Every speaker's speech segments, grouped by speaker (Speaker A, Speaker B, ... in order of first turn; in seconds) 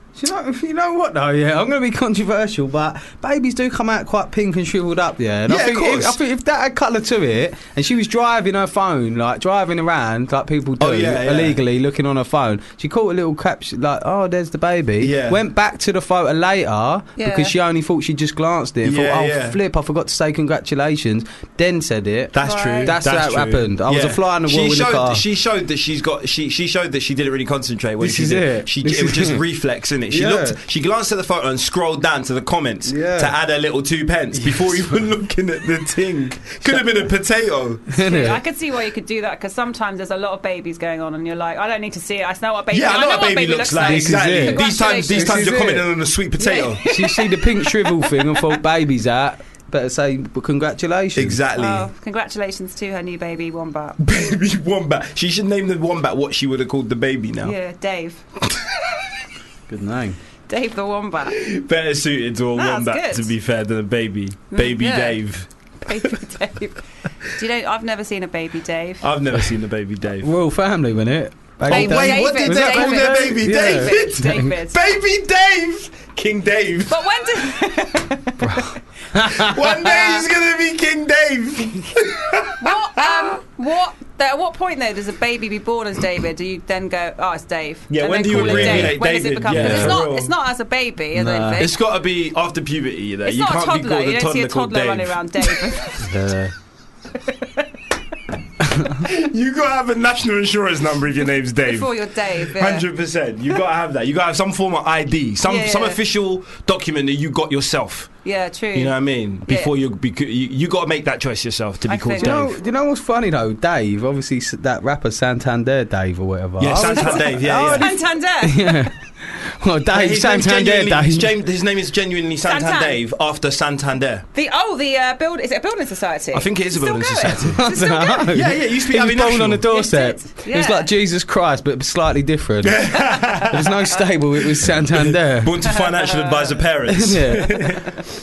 Speaker A: 0.2-25.2, 28.0-29.4, 30.1-30.6, 32.9-33.3, 34.4-34.9, 37.9-38.4, 43.8-45.9, 46.9-51.4, 59.7-60.2, 70.2-74.5, 78.4-79.6, 88.3-89.0, 89.5-90.0, 91.2-91.7, 96.0-96.5, 112.2-121.3, 127.6-135.5, 136.9-137.9
Speaker B: 5.5-6.2, 10.8-11.6, 15.0-15.4, 18.8-19.6, 22.3-37.9, 42.7-46.9, 51.2-51.9, 54.0-57.5, 61.3-66.1, 69.0-70.3, 71.7-77.1, 79.3-83.4, 87.9-90.3, 91.6-95.9, 99.0-108.1, 108.7-112.5, 116.6-117.9, 119.9-124.3, 126.3-127.7, 128.3-129.7, 132.6-133.6, 134.8-138.0
Speaker C: 17.2-17.5, 22.4-23.0, 38.0-45.6, 46.4-48.5, 51.6-54.0, 57.4-58.2, 60.5-61.4, 62.6-63.3, 64.5-65.2, 65.8-69.1, 71.7-74.9, 76.9-78.4, 79.8-80.2, 82.6-91.8, 93.2-96.1, 97.3-97.6, 101.7-102.9, 105.4-106.0, 108.2-109.7, 111.9-112.4, 116.8-118.9, 122.5-123.0, 124.3-128.3, 129.7-130.9, 133.1-133.4, 135.7-136.5